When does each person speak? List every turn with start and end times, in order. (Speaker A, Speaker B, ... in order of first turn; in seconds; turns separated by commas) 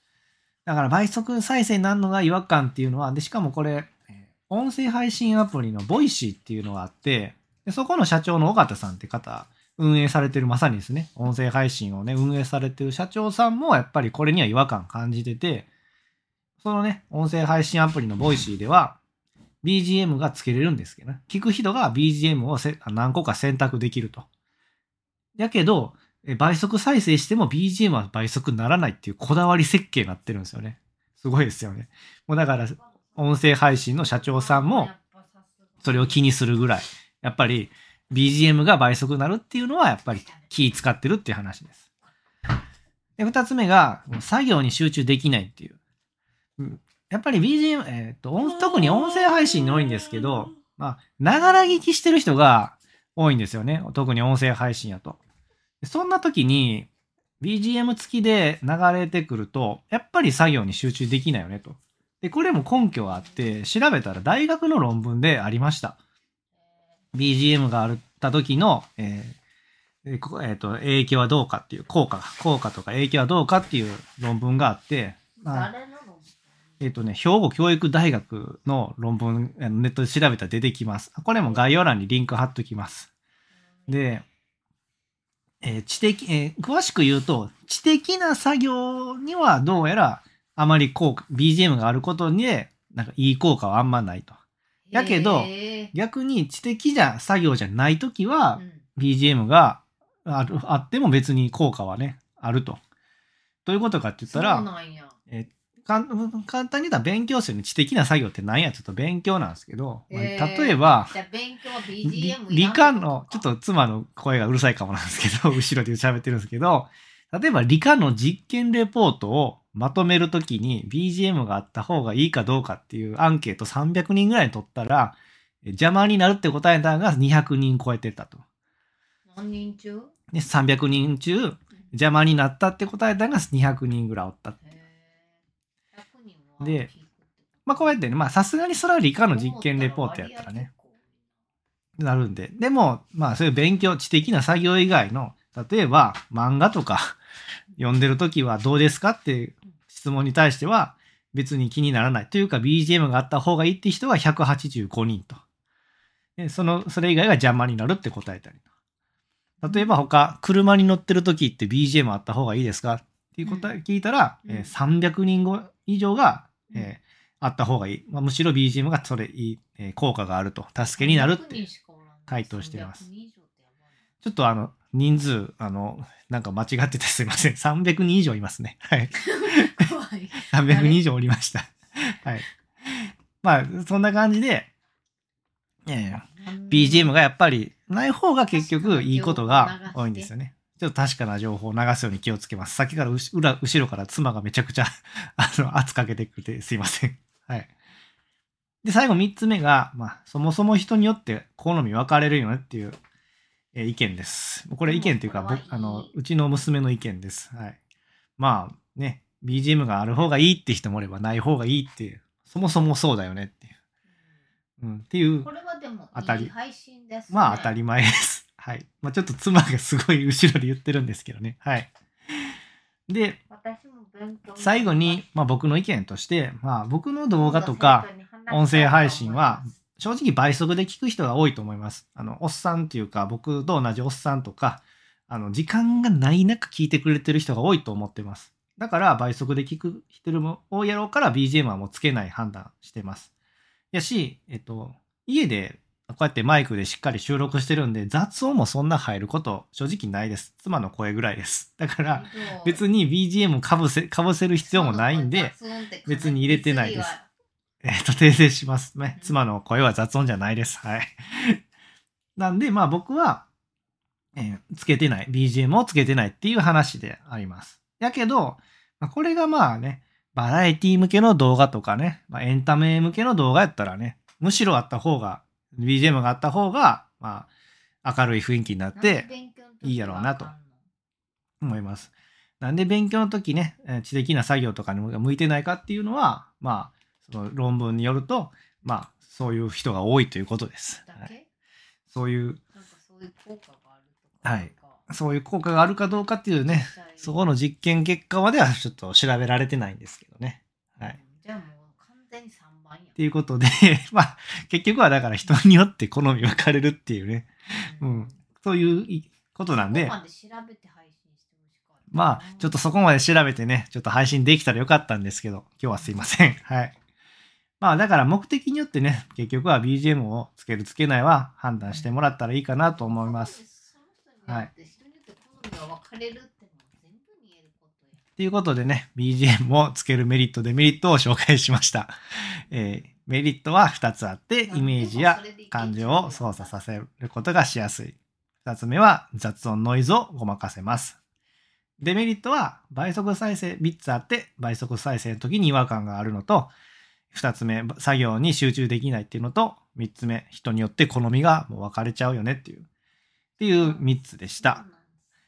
Speaker A: 0.7-15.7, Speaker A: 16.6-19.0, Speaker A: 19.6-24.3, Speaker A: 25.4-34.9, Speaker B: 34.2-36.2, Speaker A: 35.8-41.8, Speaker B: 40.3-40.5, Speaker A: 43.2-45.8, Speaker A: 46.6-55.2, Speaker A: 55.8-56.9, Speaker A: 57.4-66.0, Speaker A: 67.1-69.4, Speaker A: 70.0-75.7, Speaker B: 75.4-76.4, Speaker A: 76.8-83.1, Speaker A: 83.9-84.2, Speaker A: 85.6-94.4, Speaker B: 94.9-95.9, Speaker A: 94.9-102.8, Speaker B: 98.6-98.8, Speaker A: 103.7-104.7, Speaker B: 104.3-105.2, Speaker A: 105.3-111.1, Speaker B: 110.1-113.5, Speaker A: 112.0-128.4, Speaker B: 129.3-130.1, Speaker A: 130.3-134.6, Speaker B: 134.6-135.4, Speaker B: 135.9-138.0, Speaker A: 136.6-136.9, Speaker A: 137.7-140.7, Speaker B: 139.3-141.1, Speaker A: 142.0-147.2, Speaker A: 147.8-155.4, Speaker A: 156.4-158.6, Speaker B: 159.6-159.9, Speaker A: 159.6-171.6, Speaker B: 163.4-163.7, Speaker B: 171.0-173.8, Speaker A: 172.3-173.0, Speaker A: 174.2-179.8, Speaker B: 179.1-181.0, Speaker A: 180.5-182.5, Speaker A: 183.4-184.7, Speaker A: 185.9-197.7, Speaker B: 186.3-187.1, Speaker B: 188.5-190.3, Speaker A: 198.8-203.0, Speaker A: 203.7-207.8, Speaker B: 204.8-206.1, Speaker A: 208.4-213.7, Speaker A: 214.8-215.5, Speaker B: 215.4-217.7, Speaker A: 216.2-216.5, Speaker A: 217.3-221.9, Speaker A: 223.1-223.4, Speaker B: 223.5-225.2, Speaker A: 224.6-243.3, Speaker B: 227.4-229.7, Speaker A: 243.9-255.5, Speaker B: 252.1-252.8, Speaker B: 254.7-257.3, Speaker A: 256.1-257.1, Speaker A: 257.8-261.6, Speaker A: 262.4-263.5, Speaker A: 264.4-277.5, Speaker A: 278.0-279.3, Speaker B: 278.9-280.8, Speaker A: 279.8-280.5, Speaker A: 281.6-291.3, Speaker B: 291.1-291.5, Speaker A: 292.1-292.6, Speaker B: 292.7-295.1, Speaker A: 294.4-301.2, Speaker B: 296.6-297.4, Speaker B: 301.0-303.2, Speaker A: 303.2-310.1, Speaker B: 307.8-308.4, Speaker B: 309.7-312.8, Speaker A: 312.1-316.9, Speaker A: 317.8-323.6, Speaker B: 323.0-328.2, Speaker A: 328.4-332.1, Speaker A: 332.7-341.2, Speaker B: 334.7-336.7, Speaker A: 342.0-346.7, Speaker A: 347.3-352.9, Speaker A: 353.6-354.8, Speaker B: 353.6-354.1, Speaker B: 354.6-355.1